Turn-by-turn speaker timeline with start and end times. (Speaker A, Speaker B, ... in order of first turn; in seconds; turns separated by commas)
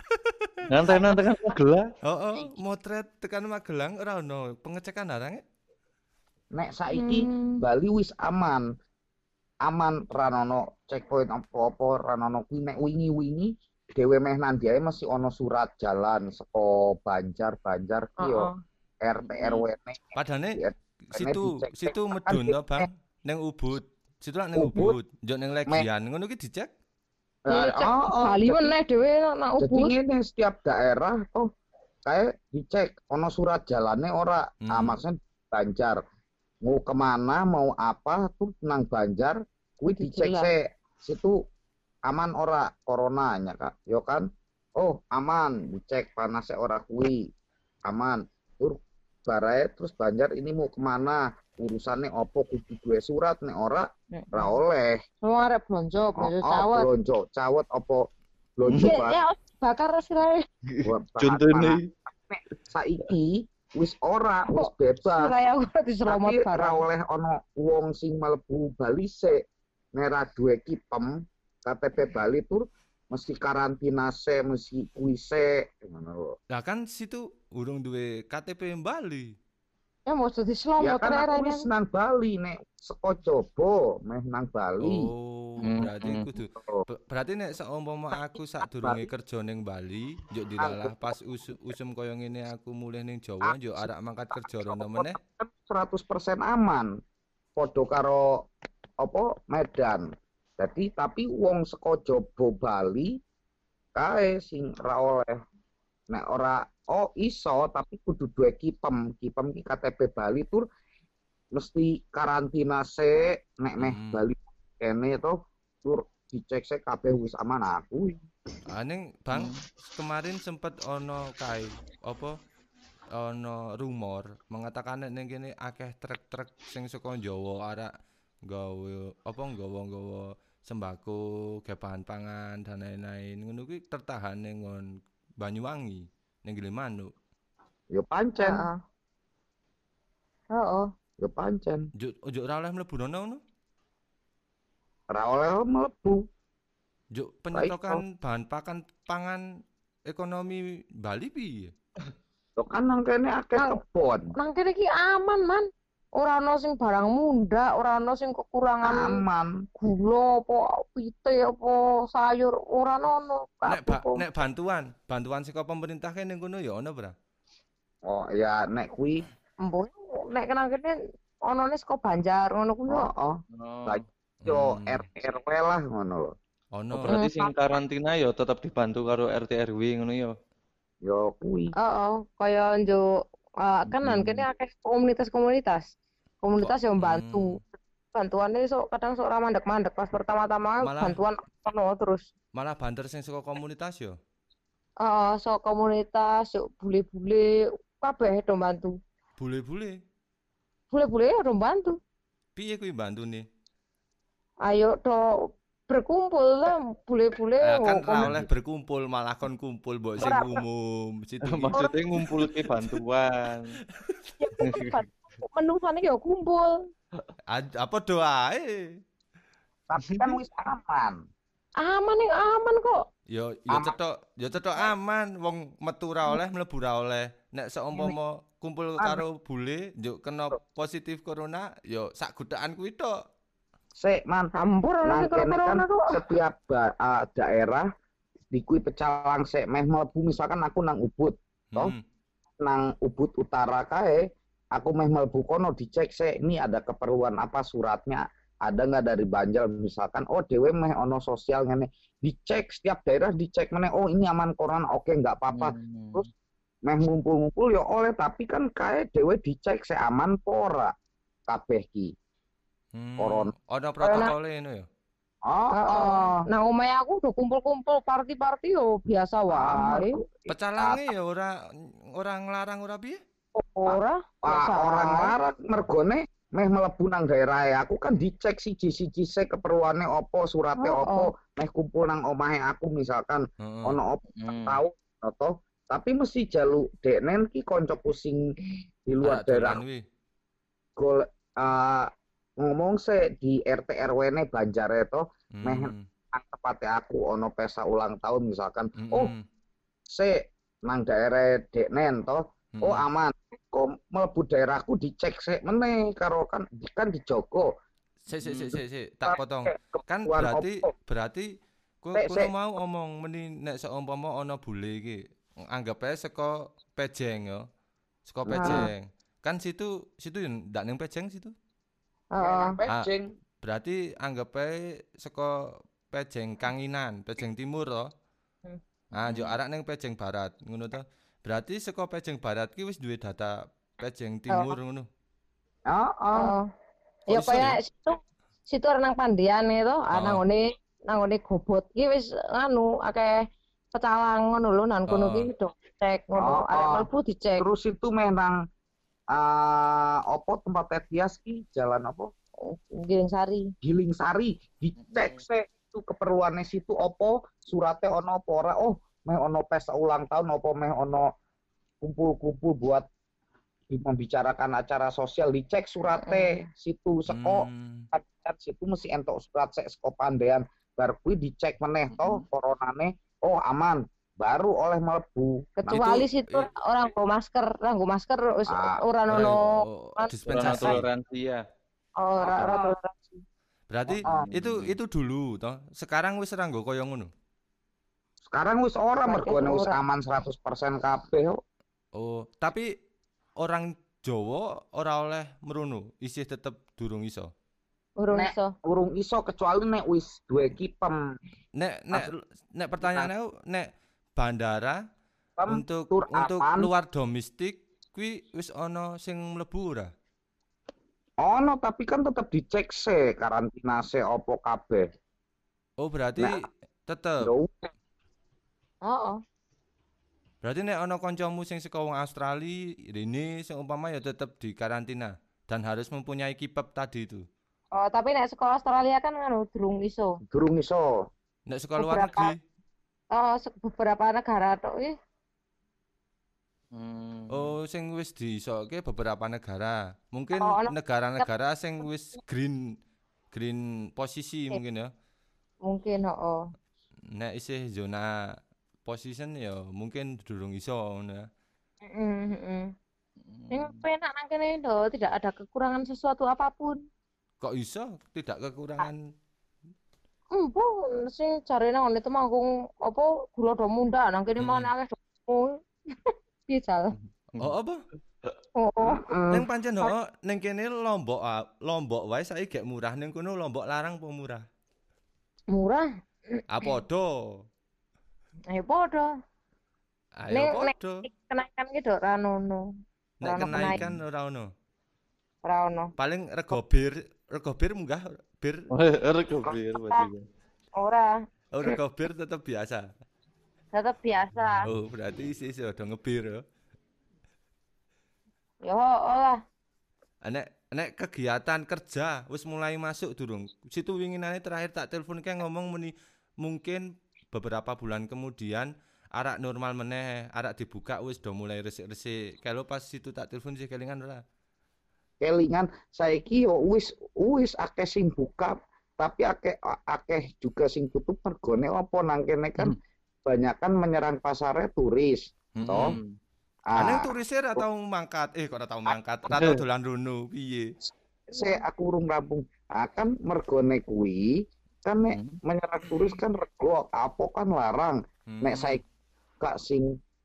Speaker A: 0.1-0.7, Speaker B: 0.7-1.9, Speaker C: 0.9-1.2, Speaker A: 2.0-5.4, Speaker D: 6.5-8.7, Speaker C: 6.9-7.6, Speaker D: 9.6-18.5, Speaker C: 18.2-18.6, Speaker D: 19.0-22.8, Speaker B: 19.2-19.6, Speaker A: 20.1-20.6, Speaker A: 21.1-26.7, Speaker D: 24.5-24.9, Speaker D: 27.5-28.8, Speaker C: 27.5-29.9, Speaker D: 29.6-31.5, Speaker D: 32.1-36.0, Speaker A: 34.6-35.0, Speaker D: 36.6-41.4, Speaker C: 39.9-40.5, Speaker D: 42.1-44.3, Speaker D: 44.8-47.3, Speaker D: 47.9-55.0, Speaker C: 54.1-54.6, Speaker C: 55.2-56.9, Speaker D: 56.2-58.1, Speaker D: 58.6-59.2, Speaker B: 58.6-58.9, Speaker C: 58.8-60.4, Speaker B: 60.7-61.8, Speaker D: 60.8-65.3, Speaker C: 64.5-66.8, Speaker D: 66.1-69.4, Speaker D: 70.0-76.3, Speaker A: 76.5-79.3, Speaker C: 80.1-81.7, Speaker D: 80.8-85.1, Speaker A: 84.8-95.2, Speaker B: 85.6-86.3, Speaker D: 86.3-86.8, Speaker D: 88.7-89.0, Speaker D: 90.6-91.0, Speaker D: 93.4-96.9, Speaker D: 97.6-98.5, Speaker D: 99.0-100.1, Speaker D: 100.6-103.2, Speaker D: 104.0-105.4, Speaker D: 106.1-110.6, Speaker D: 111.5-118.2, Speaker A: 113.8-114.2, Speaker A: 118.7-122.3, Speaker B: 119.3-119.6, Speaker A: 123.1-127.9, Speaker A: 128.4-137.1, Speaker D: 137.9-138.7, Speaker C: 138.4-138.8, Speaker C: 140.5-140.9, Speaker D: 141.2-141.8, Speaker A: 142.0-143.4, Speaker D: 145.1-146.2, Speaker A: 147.1-149.4, Speaker A: 150.1-151.7, Speaker D: 152.6-154.3, Speaker C: 154.4-159.2, Speaker D: 158.8-159.6, Speaker C: 159.8-164.2, Speaker A: 163.7-167.1, Speaker D: 168.1-169.2, Speaker C: 169.6-173.1, Speaker D: 172.9-176.3, Speaker B: 173.5-174.0, Speaker A: 174.4-175.0, Speaker A: 176.8-177.1, Speaker B: 176.9-180.4, Speaker C: 177.1-177.5, Speaker D: 181.1-181.7, Speaker C: 181.8-183.1, Speaker C: 183.6-185.9, Speaker B: 184.0-184.4, Speaker C: 186.4-187.6, Speaker A: 186.6-187.6, Speaker C: 188.1-192.3, Speaker A: 190.8-191.2, Speaker A: 192.5-194.2, Speaker C: 195.0-198.9, Speaker A: 199.4-200.0, Speaker C: 200.9-202.0, Speaker A: 202.6-203.4, Speaker C: 204.7-205.2, Speaker C: 205.9-208.4, Speaker A: 207.6-213.0, Speaker C: 210.2-210.6, Speaker B: 211.5-213.8, Speaker C: 211.7-212.0, Speaker A: 214.0-214.3, Speaker C: 214.4-216.8, Speaker B: 214.6-214.9, Speaker A: 217.5-219.0, Speaker D: 219.9-221.2, Speaker B: 220.0-220.3, Speaker C: 221.8-223.0, Speaker A: 223.3-233.2, Speaker D: 223.7-223.9, Speaker D: 234.0-234.5, Speaker C: 234.5-236.1, Speaker D: 235.0-237.9, Speaker D: 238.5-241.9, Speaker A: 241.7-242.0, Speaker D: 242.6-244.2, Speaker D: 244.8-256.3, Speaker B: 255.5-256.3, Speaker D: 256.9-260.9, Speaker D: 261.5-262.1, Speaker A: 262.9-264.9, Speaker D: 263.2-263.5, Speaker C: 264.0-264.3, Speaker D: 265.5-266.4, Speaker C: 265.7-270.2, Speaker D: 269.5-271.1, Speaker A: 270.5-273.2, Speaker C: 273.6-275.3, Speaker D: 273.9-288.4, Speaker C: 280.8-281.3, Speaker A: 283.6-284.0, Speaker B: 284.4-284.8, Speaker D: 289.1-289.8, Speaker A: 289.2-290.0, Speaker D: 291.0-292.1, Speaker D: 292.6-299.3, Speaker A: 295.5-296.0, Speaker A: 298.9-299.4, Speaker D: 300.1-307.7, Speaker A: 302.8-303.0, Speaker A: 308.3-311.5, Speaker D: 308.4-309.4, Speaker D: 309.9-310.9, Speaker A: 312.0-317.6, Speaker D: 312.2-312.5, Speaker A: 318.3-321.5, Speaker D: 318.5-318.9, Speaker C: 318.6-318.9, Speaker C: 322.3-322.8, Speaker D: 322.4-323.3, Speaker A: 323.6-328.1, Speaker A: 329.1-335.1, Speaker B: 329.2-329.5, Speaker D: 335.9-336.5, Speaker C: 336.3-336.6, Speaker C: 337.3-338.2, Speaker A: 337.3-337.8, Speaker C: 338.7-343.4, Speaker A: 340.1-340.4, Speaker C: 343.9-347.6, Speaker A: 345.1-345.5, Speaker D: 346.4-347.1, Speaker D: 347.6-348.6, Speaker D: 349.3-352.3, Speaker C: 352.6-353.7, Speaker D: 353.8-361.3, Speaker B: 355.0-355.4, Speaker D: 362.0-363.1, Speaker D: 363.9-375.6, Speaker C: 366.2-366.6, Speaker A: 367.3-368.1, Speaker B: 372.1-372.4, Speaker C: 375.8-381.0, Speaker A: 375.9-376.7, Speaker D: 378.7-379.0, Speaker A: 379.3-381.1, Speaker B: 380.4-381.6, Speaker C: 382.2-383.4, Speaker D: 382.4-382.9, Speaker A: 383.9-387.3, Speaker D: 384.1-384.5, Speaker B: 384.3-384.9, Speaker D: 388.5-391.6, Speaker C: 389.2-390.0, Speaker A: 392.1-392.9, Speaker A: 393.6-397.5, Speaker C: 398.2-398.7, Speaker D: 398.3-401.4, Speaker A: 401.8-405.0, Speaker D: 403.0-403.3, Speaker D: 405.6-406.9, Speaker A: 405.7-410.1, Speaker D: 411.4-415.1, Speaker A: 416.0-417.5, Speaker D: 417.4-417.9, Speaker C: 419.0-419.4, Speaker A: 420.6-427.5, Speaker C: 427.9-430.4, Speaker D: 430.5-431.1, Speaker A: 431.7-432.6, Speaker C: 432.0-432.5, Speaker C: 433.3-435.1, Speaker B: 436.9-437.8, Speaker A: 437.5-442.9, Speaker C: 440.6-441.5, Speaker A: 443.5-445.1, Speaker C: 445.9-446.6, Speaker A: 447.3-448.5, Speaker A: 449.0-451.5, Speaker C: 452.1-452.9, Speaker B: 453.4-454.0, Speaker C: 453.7-457.0, Speaker A: 457.6-459.3, Speaker C: 460.5-467.1, Speaker A: 464.6-464.9, Speaker B: 467.2-467.8, Speaker A: 467.6-468.0, Speaker C: 468.8-470.1, Speaker D: 469.0-469.4, Speaker A: 469.5-474.6, Speaker C: 475.7-476.9, Speaker A: 476.7-477.6, Speaker C: 478.7-479.3, Speaker A: 480.4-481.2, Speaker C: 480.5-482.8, Speaker A: 483.4-484.7, Speaker C: 483.4-484.0, Speaker B: 483.6-484.2, Speaker C: 485.6-486.1, Speaker A: 486.2-488.9, Speaker B: 488.9-490.4, Speaker C: 491.0-492.0, Speaker A: 491.7-493.1, Speaker C: 493.9-494.9, Speaker A: 494.8-496.6, Speaker C: 498.9-499.6, Speaker A: 500.4-514.4, Speaker D: 515.4-526.2, Speaker A: 525.8-526.2, Speaker B: 525.9-526.4, Speaker D: 526.9-527.8, Speaker A: 527.0-530.9, Speaker B: 529.5-529.8, Speaker D: 531.5-534.5, Speaker D: 535.0-539.0, Speaker B: 535.3-535.6, Speaker A: 538.5-539.0, Speaker D: 539.6-540.2